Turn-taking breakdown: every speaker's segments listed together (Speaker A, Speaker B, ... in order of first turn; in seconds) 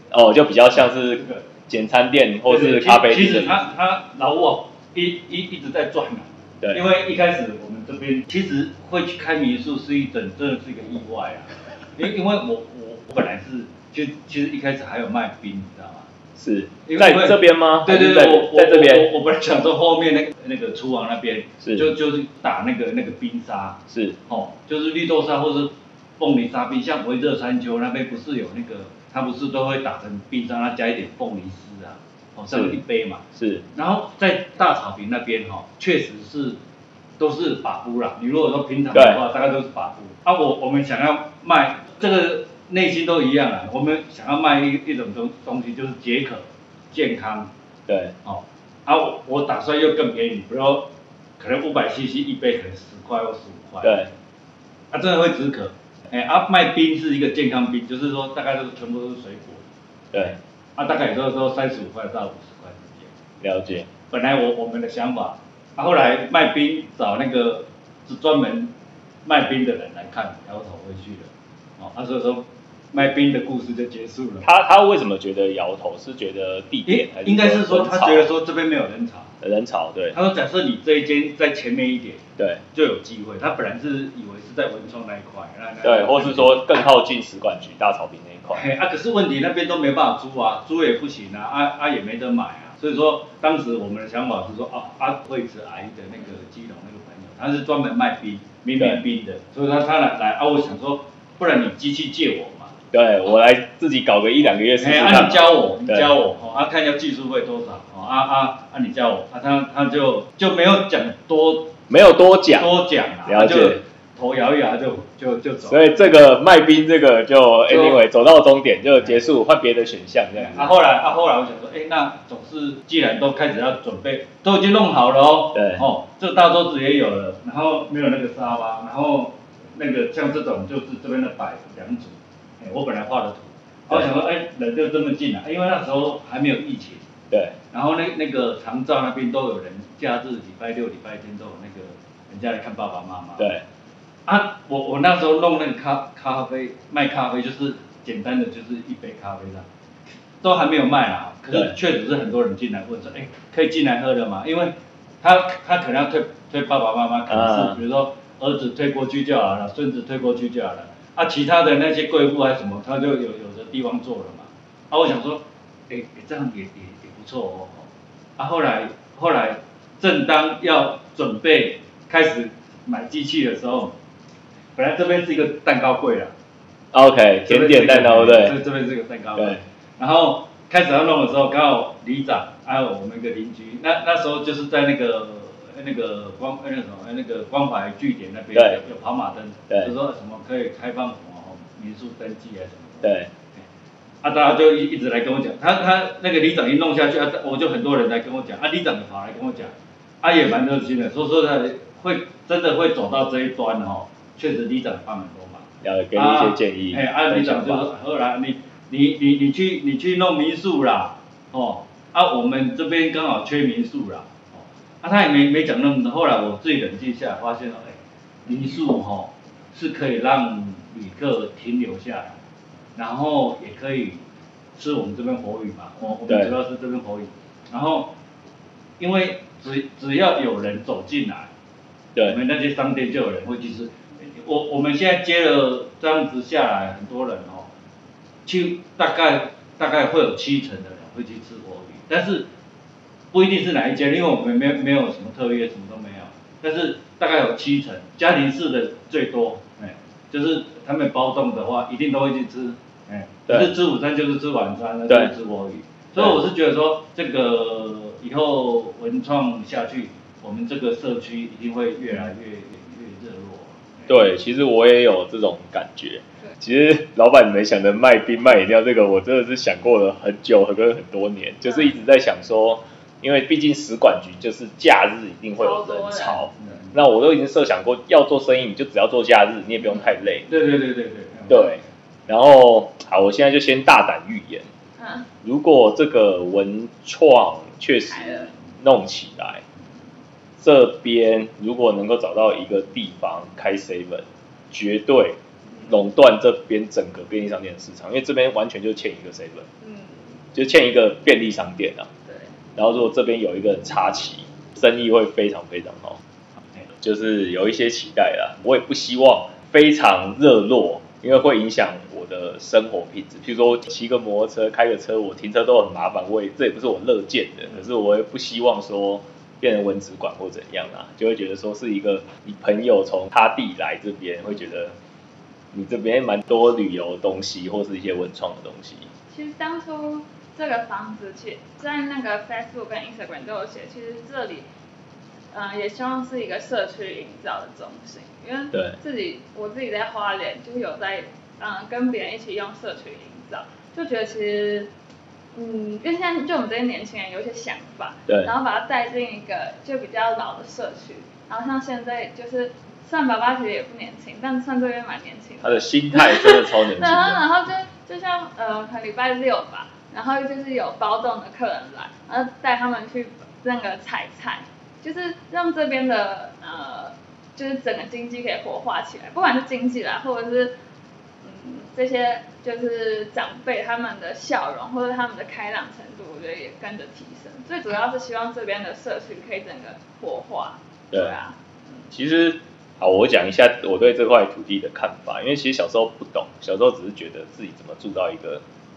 Speaker A: 0.1-3.6, 16.4-19.1, 21.6-21.9, 23.9-24.2, 32.5-32.8, 33.4-33.7, 38.9-39.2, 47.9-48.1, 53.8-54.1, 60.1-60.4, 63.4-63.9, 74.4-78.3, 79.4-80.2, 82.4-82.6, 85.8-88.7, 98.8-99.0, 102.9-106.1, 111.9-112.7, 113.2-113.8, 115.6-120.8, 125.5-125.9, 137.3-137.6, 143.4-143.6, 157.3-157.8, 176.9-178.6, 179.4-179.6, 188.5-188.8, 189.7-189.9, 193.0-193.3, 205.8-207.9, 226.3-226.6, 264.1-280.5, 281.5-284.7, 285.4-289.6, 290.6-299.7, 300.5-302.1, 302.8-306.2, 307.0-324.9, 325.7-329.1, 355.6-357.5, 381.1-381.4, 382.1-388.6
Speaker B: 1.2-1.5, 2.5-16.1, 16.9-36.6, 37.2-47.5, 48.2-54.1, 54.9-59.6, 60.8-63.1, 64.0-68.7, 69.2-74.5, 76.9-79.3, 80.1-86.6, 88.5-102.8, 104.8-111.8, 112.6-116.2, 117.7-118.0, 120.3-137.1, 137.7-143.5, 144.3-149.7, 150.4-167.9, 168.4-174.0, 174.8-176.3, 177.4-193.6, 194.2-222.4, 223.0-224.2, 224.8-228.1, 229.0-231.5, 232.2-237.7, 238.5-242.5, 243.3-264.3, 276.6-276.9, 280.5-281.8
Speaker C: 275.6-276.5, 285.0-285.3, 288.1-288.5, 299.8-300.3, 329.3-334.7, 335.5-344.9, 345.6-370.8, 371.4-382.1